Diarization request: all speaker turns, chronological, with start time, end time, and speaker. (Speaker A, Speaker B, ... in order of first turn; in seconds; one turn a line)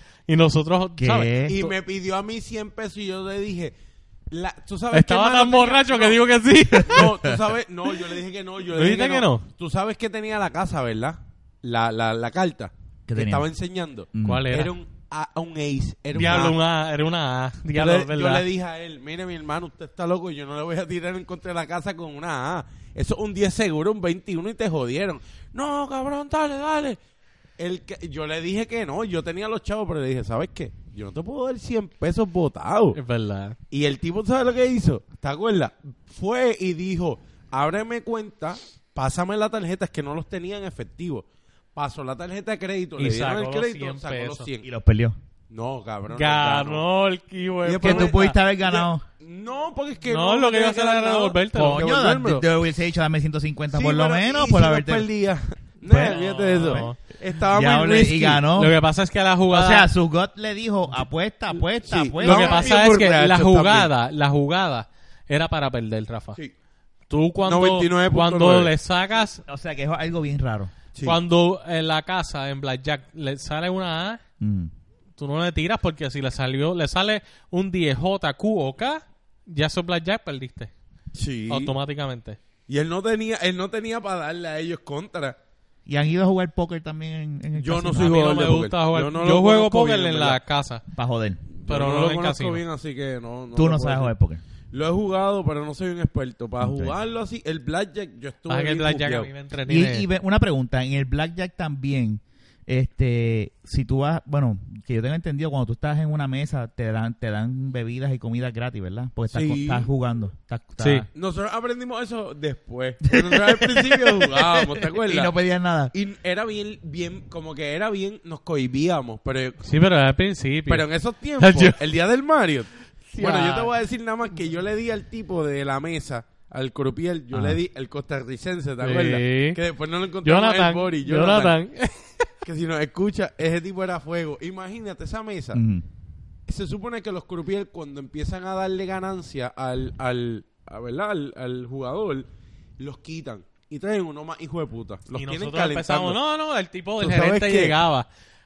Speaker A: 0.3-1.7
Speaker B: 1.0-1.6
Speaker C: 1.5-3.7
Speaker C: 4.3-6.2
Speaker A: 4.9-7.1
Speaker C: 6.8-16.6
Speaker B: 6.9-7.3
Speaker A: 8.7-9.4
Speaker B: 13.1-13.5
Speaker B: 14.1-14.5
Speaker A: 14.2-14.7
Speaker A: 16.1-18.4
Speaker C: 17.7-27.0
Speaker C: 27.6-33.0
Speaker A: 32.9-33.6
Speaker C: 33.7-41.2
Speaker C: 41.7-44.7
Speaker A: 43.0-44.5
Speaker B: 44.6-45.2
Speaker C: 45.5-46.8
Speaker A: 46.1-48.3
Speaker C: 47.6-52.4
Speaker B: 47.8-49.0
Speaker A: 50.1-51.9
Speaker B: 51.5-55.0
Speaker C: 53.7-58.4
Speaker B: 55.9-56.9
Speaker A: 55.9-57.0
Speaker B: 57.5-58.7
Speaker A: 58.5-59.9
Speaker B: 59.5-62.7
Speaker C: 61.8-63.9
Speaker A: 62.2-66.4
Speaker A: 67.1-69.4
Speaker C: 67.5-68.7
Speaker B: 69.5-70.7
Speaker A: 71.0-74.2
Speaker B: 74.4-74.7
Speaker A: 75.2-80.7
Speaker C: 81.1-81.7
Speaker A: 81.5-82.4
Speaker C: 82.7-85.4
Speaker B: 85.8-88.3
Speaker C: 87.6-90.4
Speaker A: 88.0-90.8
Speaker B: 90.9-91.4
Speaker C: 91.5-94.1
Speaker A: 91.7-92.6
Speaker B: 93.5-94.4
Speaker C: 94.7-99.3
Speaker B: 96.6-97.0
Speaker A: 98.5-100.1
Speaker B: 99.7-111.1
Speaker C: 109.3-109.9
Speaker A: 110.8-111.0
Speaker C: 111.1-115.3
Speaker B: 113.1-114.1
Speaker B: 115.0-115.9
Speaker C: 115.9-119.7
Speaker A: 119.6-120.8
Speaker C: 120.7-131.6
Speaker A: 121.4-121.8
Speaker A: 123.1-123.7
Speaker B: 127.3-127.6
Speaker A: 128.8-129.6
Speaker A: 130.2-132.2
Speaker C: 132.4-135.6
Speaker B: 135.5-135.8
Speaker C: 136.5-142.2
Speaker C: 142.8-146.2
Speaker A: 145.1-148.1
Speaker C: 147.0-147.7